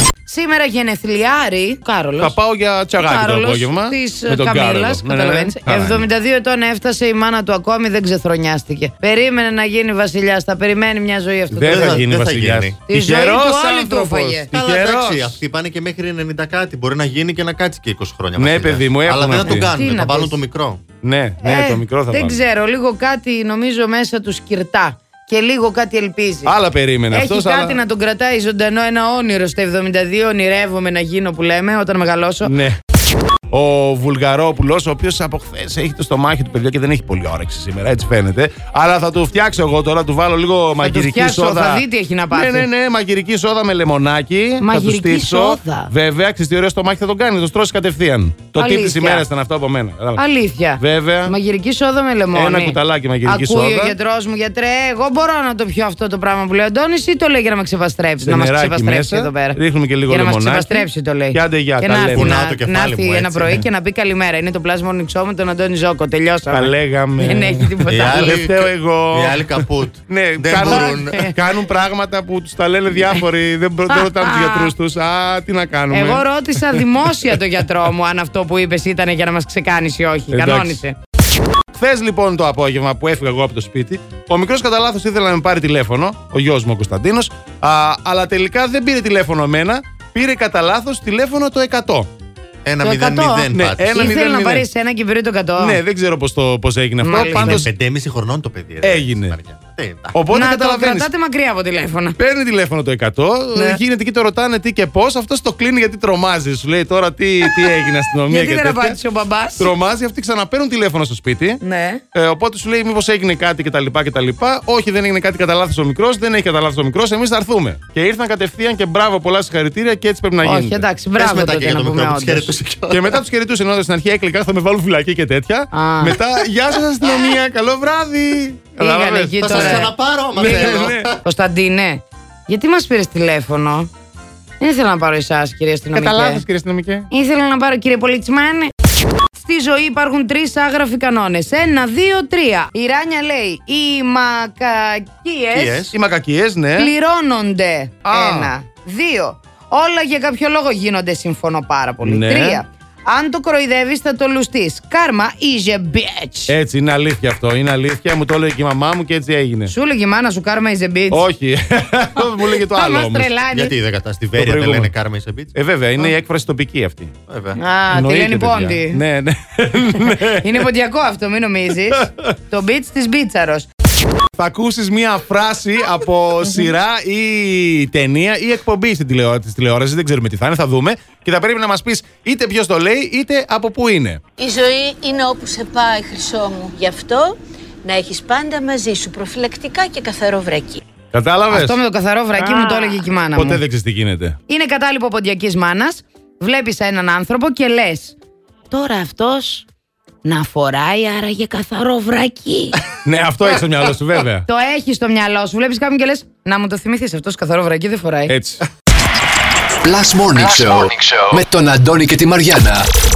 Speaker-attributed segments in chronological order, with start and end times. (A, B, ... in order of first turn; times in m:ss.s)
0:00.2-0:02.4 A
0:02.2-0:06.1 B
0:03.0-0:12.0 A
0:11.5-0:15.4 B
0:11.7-0:12.8 C
0:12.9-0:14.5 A
0:14.5-0:20.8 C
0:18.4-0:19.7 B
0:19.4-0:20.4 A
0:21.0-0:22.4 B
0:21.4-0:26.6 A
0:26.4-0:27.8 B
0:27.1-0:32.5 A
0:32.4-0:32.8 B
0:33.5-0:50.2 B
0:40.8-0:42.7 A
0:44.6-0:45.9 A
0:48.6-0:49.2 A
0:50.2-1:08.4 A
0:50.8-0:51.3 B
0:52.3-0:54.0 B
0:58.2-1:02.3 B
1:02.1-1:03.6 C
1:06.5-1:09.4 B
1:07.9-1:11.3 C
1:10.1-1:16.8 B
1:10.6-1:11.3 A
1:13.9-1:14.7 A
1:15.9-1:21.0 A
1:20.3-1:20.8 B
1:21.7-1:32.1 B
1:32.6-1:34.1 C
1:32.8-1:35.8 A
1:33.5-1:34.7 B
1:35.6-1:37.7 B
1:37.0-1:37.6 A
1:37.3-1:40.2 C
1:38.8-1:39.4 B
1:40.1-1:41.1 B
1:40.3-1:42.2 A
1:42.2-1:49.0 B
1:43.6-1:43.8 A
1:48.3-1:49.7 A
1:49.6-1:51.6 B
1:51.6-1:52.0 A
1:52.1-2:00.8 B
2:00.4-2:02.5 A
2:01.2-2:03.2 C
2:02.9-2:11.1 B
2:05.7-2:06.2 A
2:08.8-2:13.9 A
2:09.4-2:11.2 C
2:14.6-2:16.4 A
2:15.9-2:17.1 B
2:17.1-2:18.7 A
2:19.4-2:25.9 A
2:25.5-2:25.9 C
2:25.9-2:26.9 B
2:26.8-2:36.5 A
2:28.0-2:28.5 B
2:32.0-2:32.6 B
2:36.5-2:39.7 B
2:39.7-2:41.3 A
2:41.1-2:43.3 B
2:42.4-2:43.7 A
2:43.5-2:45.5 C
2:44.4-2:44.9 B
2:45.6-2:47.1 B
2:47.3-2:47.6 C
2:47.6-2:49.0 A
2:47.9-2:50.6 B
2:49.9-2:53.7 A
2:51.9-2:52.3 B
2:54.4-3:04.2 B
3:04.4-3:10.8 D
3:11.1-3:11.8 B
3:11.5-3:13.6 A
3:12.4-3:14.4 B
3:14.5-3:18.2 A
3:18.7-3:19.7 A
3:20.2-3:22.8 A
3:23.0-3:24.5 B
3:24.5-3:28.3 A
3:28.3-3:28.6 B
3:29.8-3:32.9 E